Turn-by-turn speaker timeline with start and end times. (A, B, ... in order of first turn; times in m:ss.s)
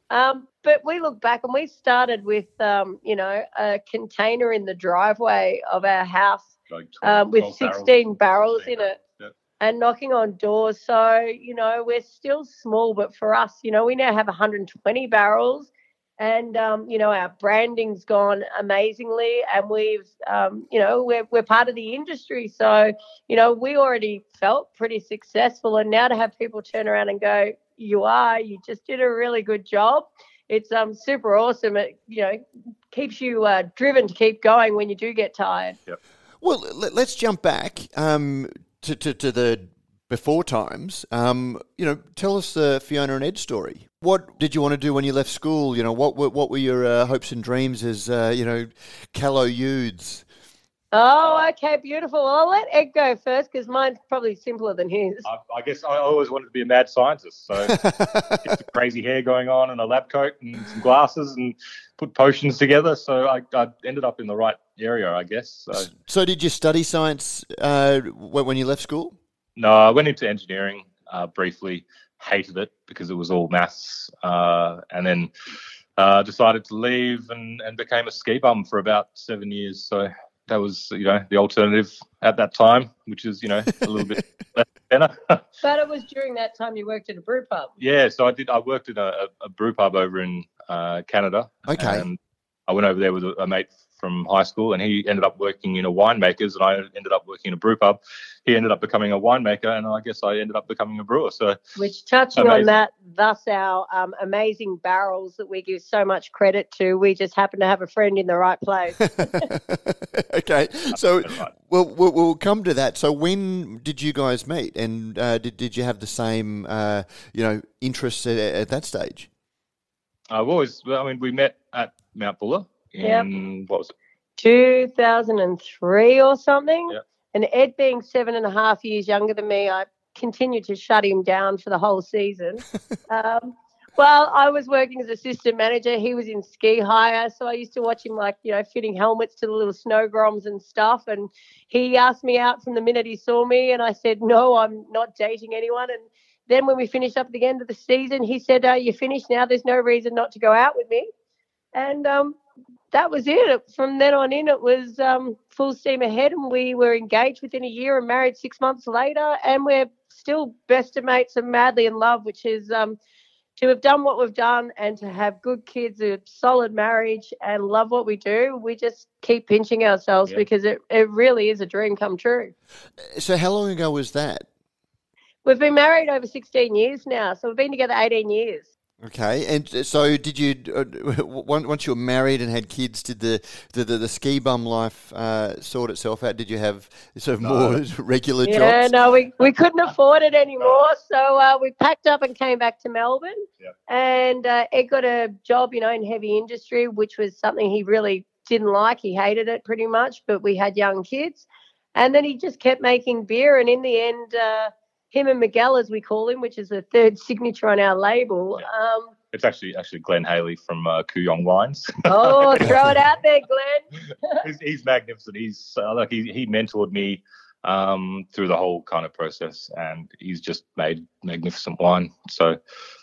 0:00.1-0:06.5 A
0:06.7-0:08.0 B
0:07.0-0:09.0 A
0:08.6-0:09.3 B
0:09.6-0:32.4 A
0:32.9-0:35.8 A
0:36.4-0:50.2 C
0:50.9-0:55.3 A
0:55.2-0:57.8 B
0:57.7-0:58.5 C
0:58.4-1:05.9 B
1:05.9-1:09.2 C
1:09.6-1:15.3 B
1:16.0-1:25.4 B
1:25.6-1:27.7 A
1:27.8-1:32.2 B
1:31.7-1:32.1 C
1:32.7-1:41.6 B
1:41.8-1:49.4 A
1:42.4-1:42.7 B
1:49.2-1:59.3 C
2:00.3-2:03.9 B
2:03.0-2:03.3 A
2:04.4-2:31.1 A
2:31.8-2:32.4 A
2:32.9-2:43.0 A
2:43.6-2:52.5 A
2:53.1-2:54.5 C
2:55.4-2:58.7 A
2:59.0-3:08.9 C
3:07.4-3:07.8 B
3:08.4-3:29.1 A
3:29.3-3:32.8 B
3:32.1-3:34.4 A
3:34.4-3:42.6 B